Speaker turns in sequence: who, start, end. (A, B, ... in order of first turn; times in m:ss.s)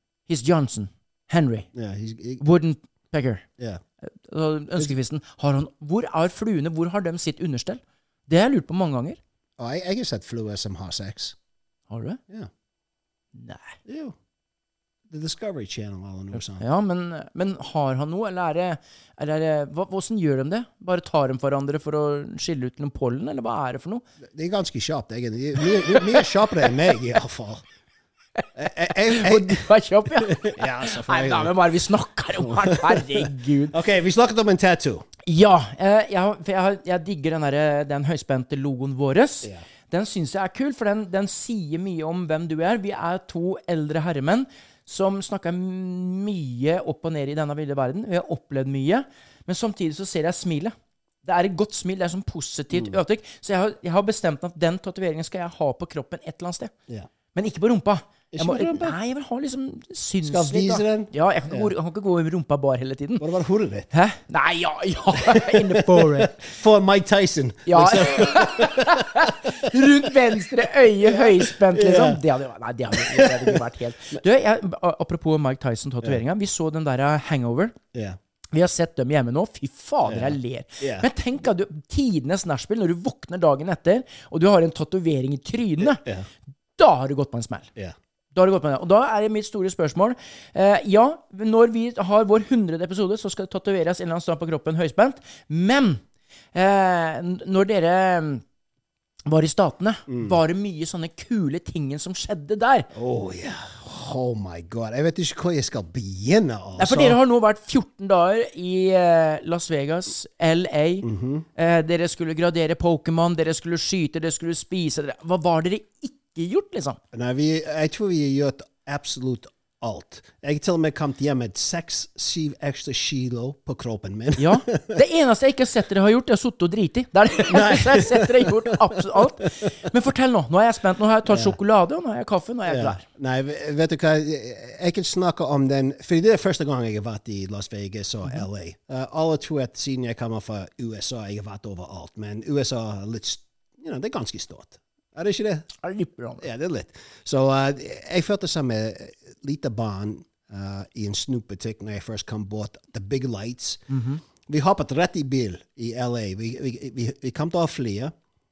0:00.3-0:01.7 A
0:01.8-0:02.4 B
0:02.4-0:03.4 A
0:04.0-0:09.2 A
0:09.6-0:11.4 B
0:11.9-0:12.2 A
0:13.4-0:13.7 A
0:13.9-0:14.2 B
0:15.1-0:16.6 B
0:16.3-0:24.0 A
0:24.3-0:27.6 B
0:25.8-0:26.2 A
0:28.6-0:29.7 B
0:29.0-0:33.8 A
0:30.2-0:31.6 B
0:32.4-0:35.1 B
0:35.3-0:56.7 A
0:57.3-1:03.2 A
0:58.3-0:59.0 B
1:00.2-1:01.7 B
1:03.2-1:03.9 B
1:03.9-1:06.4 A
1:05.3-1:10.1 B
1:07.7-1:17.8 A
1:11.0-1:12.2 B
1:13.0-1:13.6 B
1:17.9-1:18.2 B
1:18.5-1:26.0 A
1:20.1-1:21.1 B
1:25.8-1:26.3 B
1:26.8-1:27.7 A
1:28.3-1:36.0 A
1:36.5-1:38.4 A
1:39.3-1:42.9 A
1:40.1-1:40.3 B
1:42.9-1:47.2 B
1:46.8-1:57.0 A
1:51.0-1:51.5 B
1:57.1-2:05.0 B
2:04.4-2:13.0 A
2:07.5-2:09.5 B
2:11.3-2:11.6 B
2:12.7-2:25.7 B
2:25.8-2:26.5 A
2:26.4-2:33.9 B
2:33.9-2:34.2 A
2:34.5-2:38.1 B